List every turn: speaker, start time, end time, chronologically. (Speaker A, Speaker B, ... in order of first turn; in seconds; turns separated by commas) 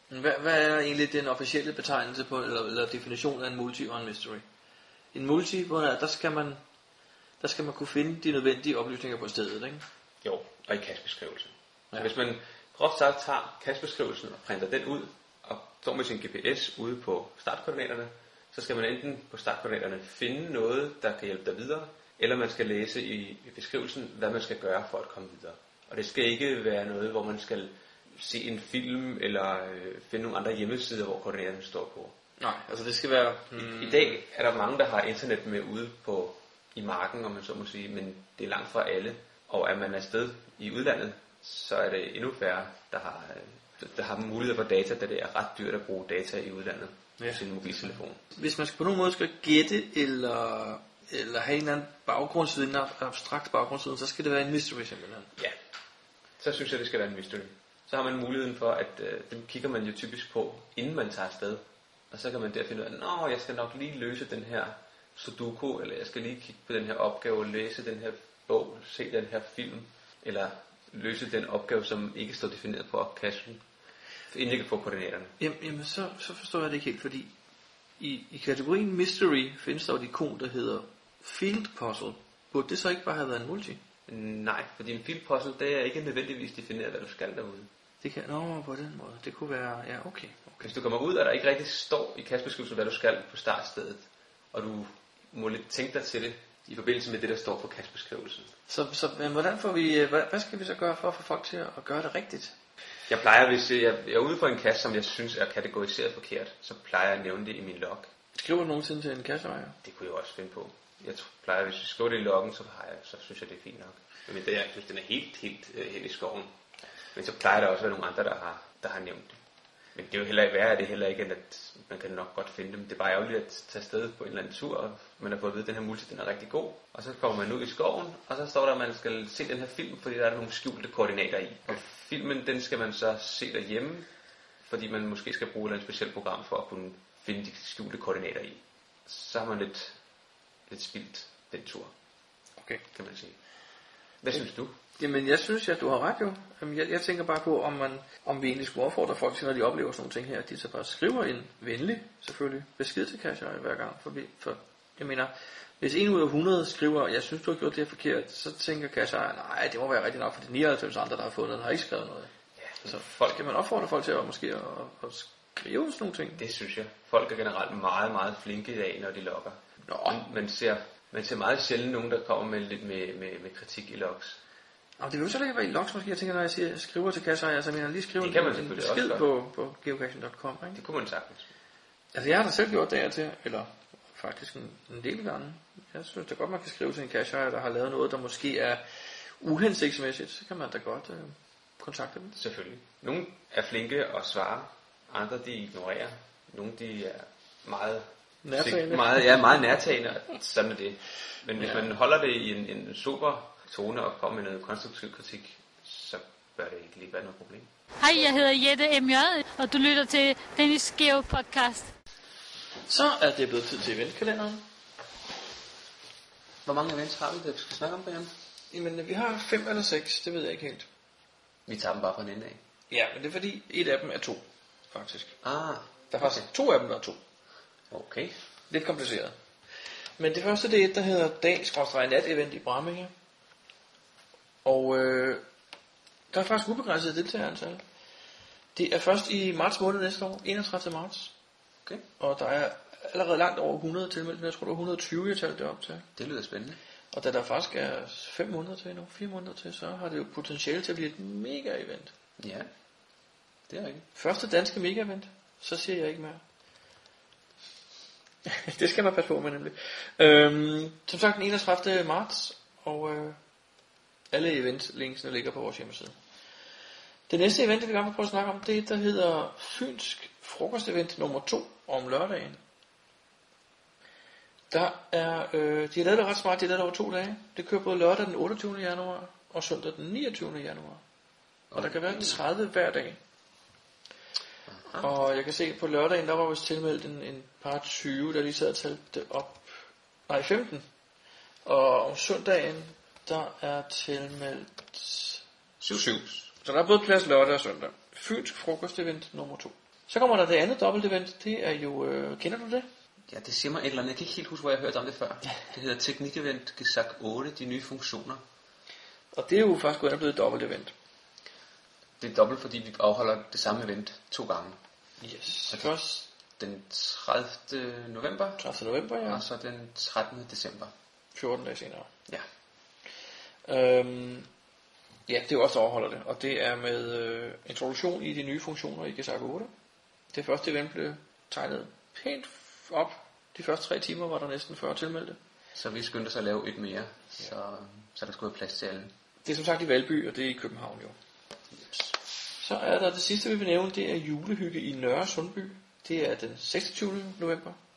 Speaker A: 0.1-4.4, Speaker A: 5.1-6.6, Speaker A: 7.4-9.8, Speaker B: 10.2-32.1, Speaker A: 32.4-34.2, Speaker B: 33.5-48.2, Speaker A: 48.3-55.3, Speaker B: 56.4-73.6, Speaker B: 74.3-75.3, Speaker A: 75.4-77.3, Speaker A: 78.0-83.8, Speaker B: 84.1-87.7, Speaker A: 88.0-90.7, Speaker B: 90.6-98.5, Speaker A: 98.7-102.5, Speaker B: 103.1-108.1, Speaker A: 108.4-109.8, Speaker B: 109.8-116.5, Speaker B: 117.1-119.4, Speaker B: 119.9-134.1, Speaker B: 134.6-139.9, Speaker B: 140.7-141.9, Speaker B: 142.9-143.4, Speaker B: 144.2-144.8, Speaker A: 145.0-162.3, Speaker B: 162.6-163.4, Speaker A: 162.8-166.4, Speaker B: 166.4-174.4, Speaker A: 169.9-170.2, Speaker A: 175.0-180.8, Speaker B: 178.2-179.3, Speaker B: 180.7-181.5, Speaker A: 182.1-192.3, Speaker B: 192.3-207.7, Speaker A: 198.4-199.6, Speaker C: 208.0-211.9, Speaker A: 212.9-214.6, Speaker B: 216.6-218.3, Speaker A: 218.7-220.9, Speaker B: 221.7-222.6, Speaker A: 222.9-225.3, Speaker B: 225.4-226.5, Speaker A: 226.1-227.2, Speaker B: 227.9-228.3, Speaker A: 228.7-229.3, Speaker A: 230.2-233.1, Speaker A: 234.6-235.4, Speaker A: 236.3-237.8, Speaker A: 238.7-241.3, Speaker A: 242.2-246.1, Speaker B: 246.2-246.8, Speaker A: 247.1-252.1, Speaker B: 252.4-252.7, Speaker B: 253.7-254.1, Speaker A: 254.1-256.4, Speaker A: 258.4-263.4, Speaker A: 264.3-266.1, Speaker A: 267.3-272.6, Speaker A: 274.7-281.0, Speaker B: 281.7-282.4, Speaker A: 281.8-283.2, Speaker B: 284.7-285.1, Speaker A: 285.0-290.8, Speaker A: 291.6-295.4, Speaker B: 295.8-296.5, Speaker A: 295.9-302.9, Speaker B: 303.3-308.4, Speaker A: 309.3-310.9, Speaker B: 312.2-314.8, Speaker A: 315.2-316.2, Speaker B: 315.7-315.9, Speaker B: 316.6-318.6, Speaker A: 318.6-319.4, Speaker B: 319.2-320.9, Speaker A: 321.3-322.1, Speaker A: 323.6-324.5, Speaker A: 325.3-329.7, Speaker A: 330.3-335.4, Speaker B: 335.7-339.1, Speaker A: 339.4-341.1, Speaker B: 341.8-342.1, Speaker A: 342.6-347.8